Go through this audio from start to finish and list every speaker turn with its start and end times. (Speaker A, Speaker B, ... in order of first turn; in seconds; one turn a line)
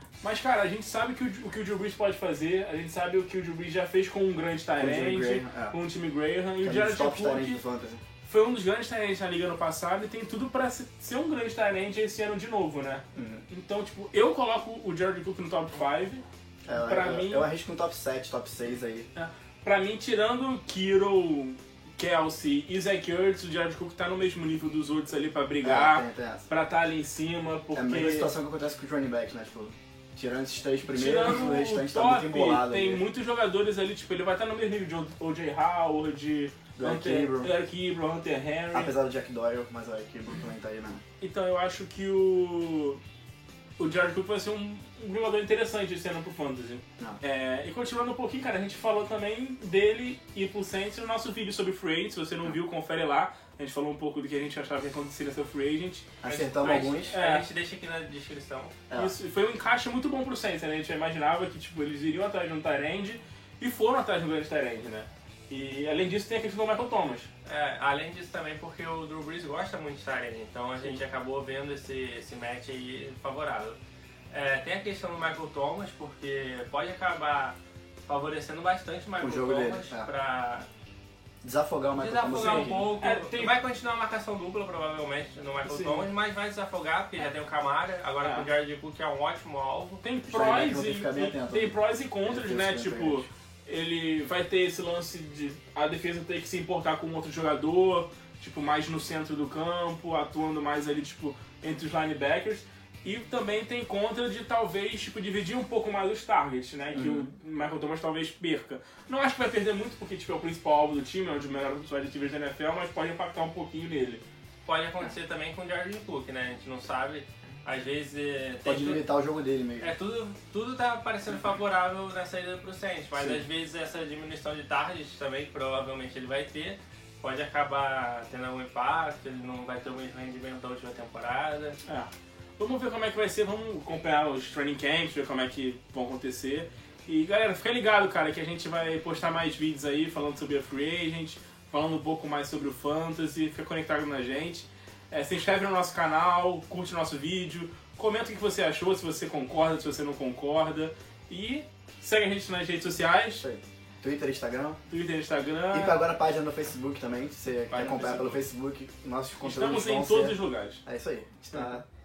Speaker A: 0.2-7.6
Speaker B: 4.8-5.8
Speaker B: 6.6-8.0
Speaker A: 8.2-17.5
Speaker B: 13.2-13.4
Speaker B: 16.7-19.1
Speaker A: 19.1-28.3
Speaker B: 25.6-26.5
Speaker B: 27.7-33.0
Speaker A: 30.9-38.9
Speaker B: 36.8-37.5
Speaker B: 38.7-41.0
Speaker A: 41.2-43.0
Speaker A: 43.8-56.1
Speaker B: 56.2-57.2
Speaker C: 56.2-58.8
Speaker A: 57.1-57.5
Speaker B: 58.9-59.1
Speaker A: 59.0-67.3
Speaker C: 67.5-73.8
Speaker C: 74.3-80.7
Speaker B: 79.2-80.1
Speaker B: 81.4-82.9
Speaker C: 82.0-90.0
Speaker A: 82.3-83.5
Speaker A: 85.7-86.1
Speaker A: 90.0-114.2
Speaker B: 90.3-93.3
Speaker B: 106.9-107.3
Speaker C: 114.7-119.0
Speaker B: 118.7-119.9
Speaker C: 119.8-131.8
Speaker B: 123.2-123.4
Speaker A: 131.8-153.4
Speaker B: 153.4-154.8
Speaker A: 154.9-156.0
Speaker B: 155.7-161.8
Speaker A: 157.7-158.4
Speaker A: 159.4-160.8